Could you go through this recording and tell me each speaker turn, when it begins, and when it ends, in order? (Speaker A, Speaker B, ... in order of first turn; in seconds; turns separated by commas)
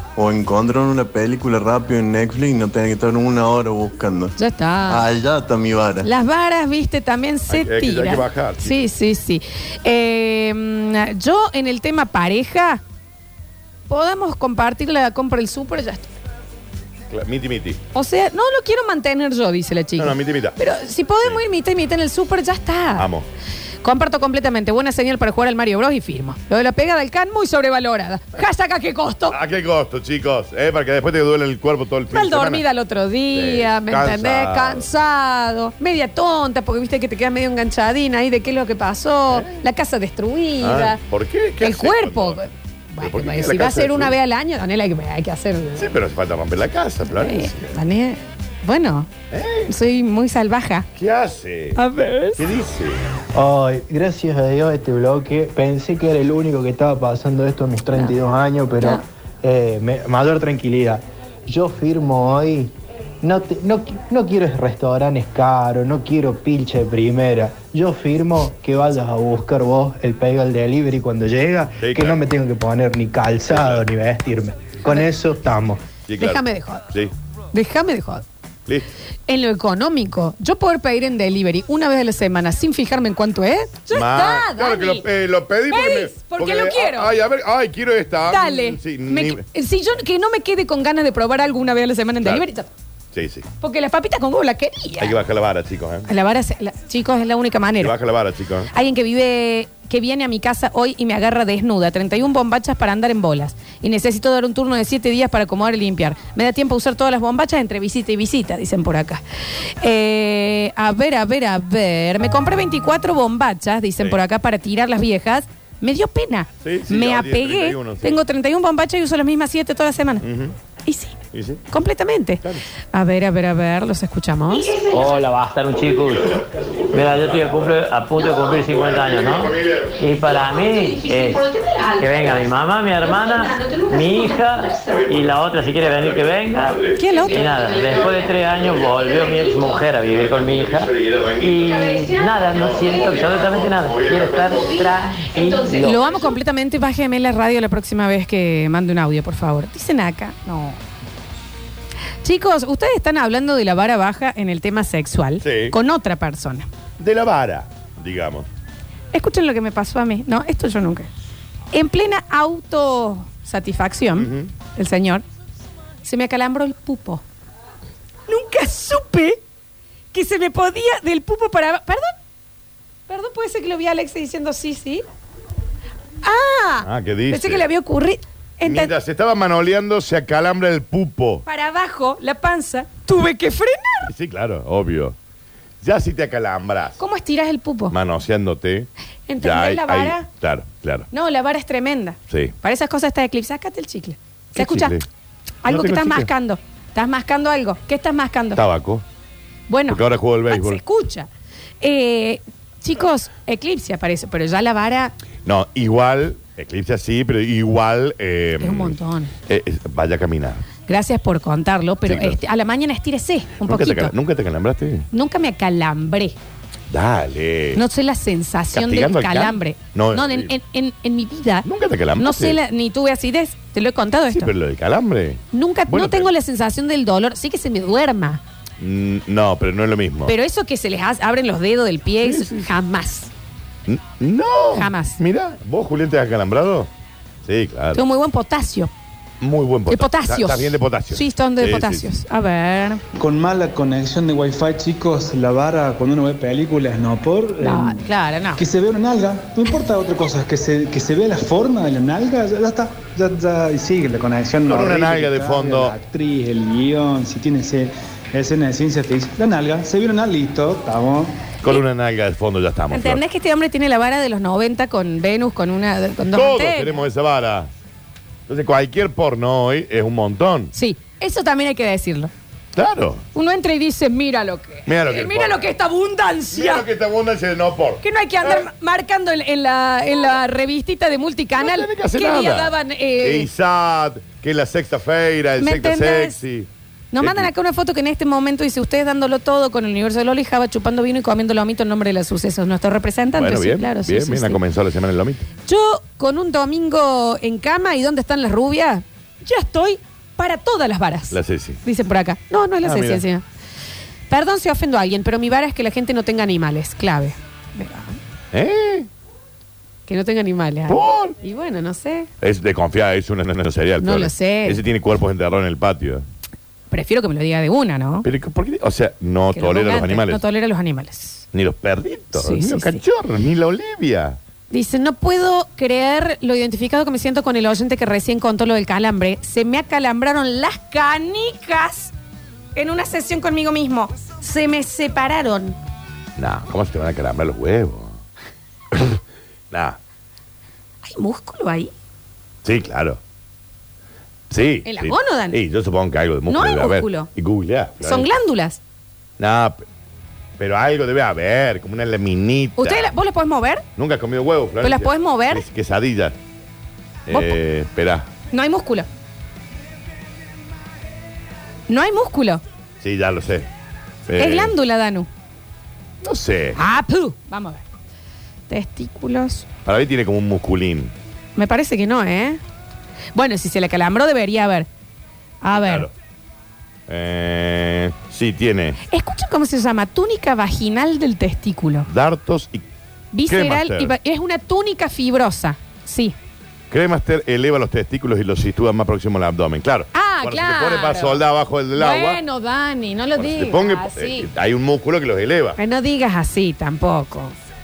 Speaker A: 0.2-4.3, Speaker B: 4.4-5.0, Speaker A: 4.9-6.1, Speaker B: 6.0-12.8, Speaker C: 7.5-8.7, Speaker B: 13.9-16.1, Speaker C: 17.1-17.8, Speaker B: 17.9-23.1, Speaker C: 20.0-20.6, Speaker C: 23.0-23.3, Speaker B: 23.8-29.4, Speaker C: 29.3-32.6, Speaker B: 32.1-41.0, Speaker C: 33.3-34.9, Speaker C: 40.6-42.4, Speaker B: 41.6-45.9, Speaker C: 43.0-44.1, Speaker C: 45.8-47.6, Speaker B: 47.1-49.1, Speaker C: 49.3-49.7, Speaker B: 49.7-50.9, Speaker C: 51.0-51.8, Speaker B: 51.8-52.4, Speaker C: 52.4-53.0, Speaker D: 53.3-75.8, Speaker C: 71.8-72.2, Speaker C: 73.5-73.8, Speaker C: 76.1-77.1, Speaker B: 76.2-76.8, Speaker B: 77.5-78.2, Speaker B: 79.3-85.0, Speaker C: 83.9-89.4, Speaker B: 85.7-87.1, Speaker B: 88.3-92.7, Speaker C: 93.1-93.5, Speaker B: 93.6-95.2, Speaker C: 95.0-96.1, Speaker B: 96.1-98.0, Speaker C: 97.8-98.7, Speaker B: 98.7-109.2, Speaker B: 109.8-120.2, Speaker C: 116.6-118.2, Speaker C: 120.2-120.5, Speaker B: 120.9-121.2, Speaker C: 121.3-121.6, Speaker B: 121.7-124.8, Speaker E: 124.9-131.4, Speaker C: 126.1-127.8, Speaker C: 128.3-129.9, Speaker B: 130.6-132.4, Speaker E: 132.0-146.2, Speaker B: 133.3-134.3, Speaker C: 134.9-135.3, Speaker C: 135.8-137.0, Speaker B: 137.0-137.4, Speaker C: 140.1-141.8, Speaker C: 142.4-144.8, Speaker B: 145.8-150.8, Speaker B: 152.2-156.7, Speaker C: 155.4-155.8, Speaker C: 157.0-158.5, Speaker B: 159.1-161.1, Speaker B: 161.7-165.2, Speaker C: 164.2-164.5, Speaker B: 166.0-167.2, Speaker B: 168.3-169.4, Speaker B: 170.1-172.1, Speaker B: 173.1-175.1, Speaker B: 176.2-178.9, Speaker C: 176.8-177.7, Speaker C: 178.6-181.4, Speaker B: 181.5-184.1, Speaker C: 184.1-185.2, Speaker C: 185.8-187.0, Speaker B: 187.0-187.9, Speaker C: 187.9-188.9, Speaker B: 189.3-190.3, Speaker C: 189.4-191.1, Speaker B: 191.1-195.0, Speaker C: 194.5-195.1, Speaker B: 195.6-198.6, Speaker C: 195.7-196.3, Speaker C: 198.6-199.0, Speaker B: 199.7-201.3, Speaker C: 199.9-200.8, Speaker B: 201.8-205.1, Speaker C: 205.4-209.0, Speaker B: 208.6-209.3, Speaker C: 209.5-210.7, Speaker B: 210.9-214.1, Speaker C: 212.1-212.4, Speaker C: 213.6-215.1, Speaker B: 215.1-216.4, Speaker C: 216.9-217.8, Speaker B: 217.8-221.7, Speaker C: 218.7-220.5, Speaker C: 221.7-222.6, Speaker B: 222.2-224.5, Speaker C: 224.3-226.3, Speaker B: 225.5-228.4, Speaker C: 228.8-230.3, Speaker B: 230.3-233.3, Speaker C: 232.2-232.7, Speaker C: 233.9-236.9, Speaker B: 234.8-235.2, Speaker C: 237.4-238.0, Speaker B: 237.9-238.9, Speaker C: 239.4-242.1, Speaker B: 239.9-243.0, Speaker F: 243.2-248.1, Speaker B: 247.6-248.6, Speaker F: 248.6-261.4, Speaker C: 254.7-255.9, Speaker C: 261.6-263.2, Speaker B: 262.9-267.0, Speaker C: 266.3-267.7, Speaker C: 268.5-270.7, Speaker B: 270.7-272.3, Speaker C: 272.8-273.2, Speaker B: 273.4-276.9, Speaker C: 274.9-275.7, Speaker C: 276.5-278.7, Speaker B: 278.0-283.5, Speaker C: 281.6-286.7, Speaker B: 285.6-286.4, Speaker B: 287.1-294.6, Speaker C: 287.2-287.5, Speaker C: 293.4-295.5, Speaker B: 295.7-303.4, Speaker C: 301.3-301.8, Speaker C: 302.8-303.2, Speaker B: 304.3-308.2, Speaker C: 308.5-309.1, Speaker B: 310.1-312.3, Speaker C: 310.9-311.4, Speaker C: 312.4-316.2, Speaker B: 314.0-314.8, Speaker B: 316.9-318.3, Speaker C: 318.2-320.4, Speaker B: 319.5-321.4, Speaker C: 321.5-324.4, Speaker B: 322.4-323.0, Speaker B: 324.7-332.1, Speaker B: 332.8-335.8, Speaker C: 336.4-338.2, Speaker C: 338.9-339.2, Speaker C: 339.7-340.0, Speaker B: 341.0-341.9, Speaker C: 342.6-343.2, Speaker C: 344.5-348.3, Speaker B: 344.9-345.6, Speaker B: 346.5-347.3, Speaker B: 348.0-348.8, Speaker C: 349.4-349.8, Speaker C: 350.6-353.1, Speaker B: 352.8-353.9, Speaker C: 354.0-356.4, Speaker B: 354.8-355.6, Speaker C: 357.3-358.3, Speaker B: 357.3-357.6, Speaker B: 358.5-359.1, Speaker B: 361.9-362.6, Speaker C: 363.0-363.7, Speaker C: 364.3-364.7, Speaker B: 364.4-365.3, Speaker C: 366.2-366.8, Speaker B: 366.8-367.8, Speaker B: 368.7-369.7, Speaker C: 369.9-371.1, Speaker B: 371.6-372.6, Speaker B: 373.4-374.9, Speaker B: 375.6-376.1, Speaker C: 375.7-376.1, Speaker C: 377.1-379.0, Speaker B: 379.1-382.1, Speaker C: 382.1-382.8, Speaker B: 383.3-386.4, Speaker C: 383.5-384.1, Speaker C: 386.9-392.4, Speaker B: 390.1-391.4, Speaker B: 391.9-394.5, Speaker C: 393.4-395.8, Speaker B: 395.8-397.5